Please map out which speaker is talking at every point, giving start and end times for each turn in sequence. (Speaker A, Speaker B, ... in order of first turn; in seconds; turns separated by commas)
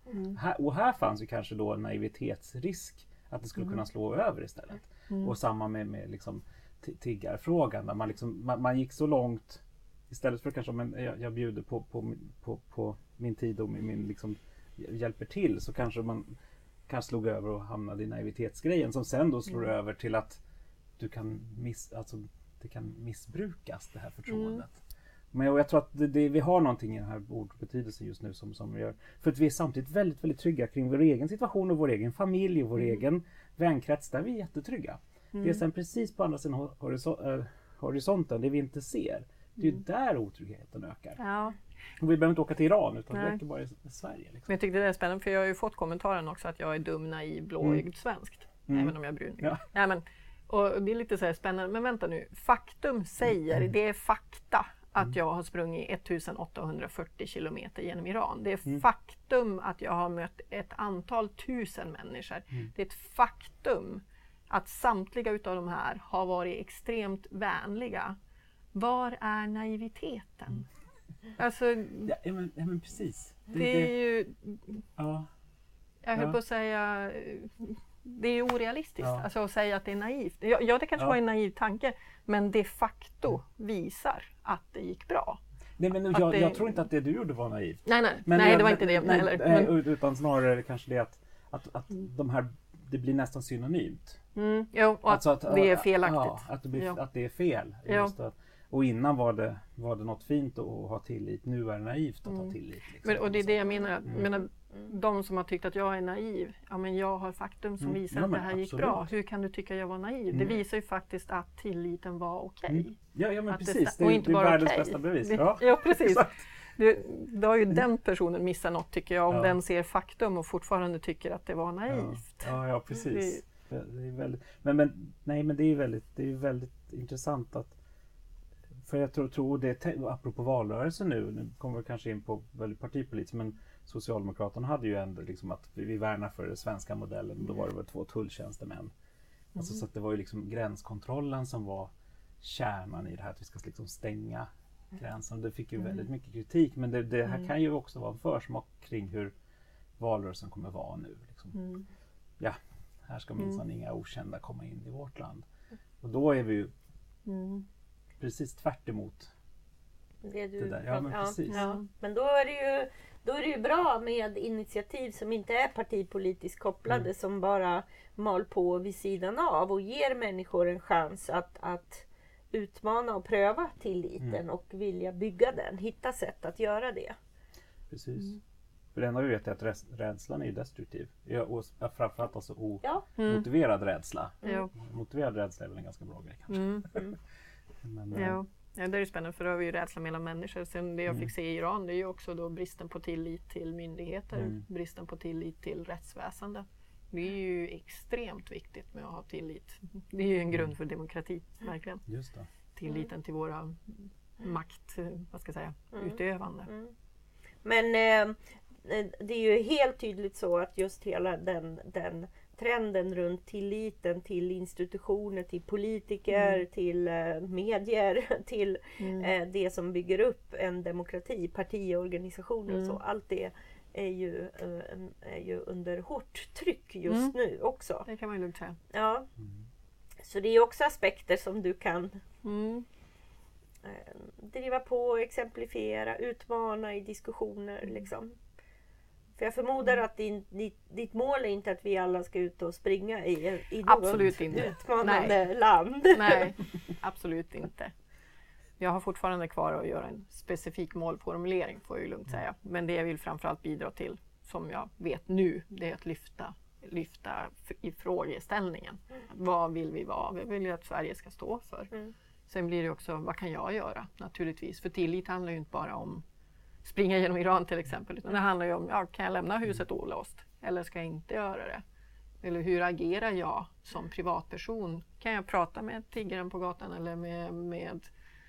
Speaker A: 0.3-16.3, Speaker B: 5.1-5.3, Speaker A: 16.9-20.4, Speaker A: 21.0-24.7, Speaker B: 24.3-24.6, Speaker A: 25.3-41.2, Speaker B: 35.3-35.6, Speaker B: 41.2-41.5, Speaker A: 42.0-44.5, Speaker B: 43.1-43.4, Speaker B: 44.5-68.2, Speaker A: 48.7-49.6, Speaker B: 68.7-70.7, Speaker B: 71.4-72.1, Speaker A: 72.0-73.9, Speaker B: 73.5-74.8, Speaker A: 75.0-75.3, Speaker B: 76.0-85.4, Speaker A: 79.0-79.2, Speaker A: 85.8-94.2, Speaker B: 86.1-86.7, Speaker B: 87.8-89.8, Speaker B: 94.3-97.0, Speaker A: 95.1-104.3, Speaker B: 97.9-98.1, Speaker B: 102.3-113.0, Speaker A: 107.8-109.1, Speaker A: 110.3-110.6, Speaker A: 112.7-116.4, Speaker B: 113.5-123.4, Speaker A: 119.3-119.5, Speaker A: 121.9-127.7, Speaker A: 128.8-138.9, Speaker A: 139.6-149.3, Speaker A: 150.0-151.6, Speaker B: 151.5-151.8, Speaker A: 152.4-155.4, Speaker A: 156.0-156.7, Speaker B: 157.2-157.7, Speaker A: 158.2-159.3, Speaker C: 160.2-177.2, Speaker A: 160.6-161.7, Speaker B: 161.5-161.8, Speaker A: 177.9-178.4, Speaker A: 178.9-187.0, Speaker B: 183.2-183.5, Speaker B: 184.4-184.7, Speaker B: 186.5-186.9, Speaker A: 187.8-188.4, Speaker B: 188.1-202.0, Speaker A: 202.1-202.5, Speaker B: 202.7-206.7, Speaker C: 205.9-206.9, Speaker C: 207.6-228.1, Speaker B: 216.3-216.6, Speaker B: 219.0-219.3, Speaker B: 222.7-223.0, Speaker B: 227.1-227.3, Speaker B: 228.0-228.8, Speaker C: 228.9-229.3, Speaker C: 230.2-232.2, Speaker B: 232.4-232.8, Speaker C: 233.8-238.4, Speaker C: 239.4-246.5, Speaker B: 243.9-245.4, Speaker B: 246.1-247.9, Speaker B: 248.8-261.9, Speaker B: 262.5-266.2, Speaker B: 266.8-271.8, Speaker B: 272.4-278.1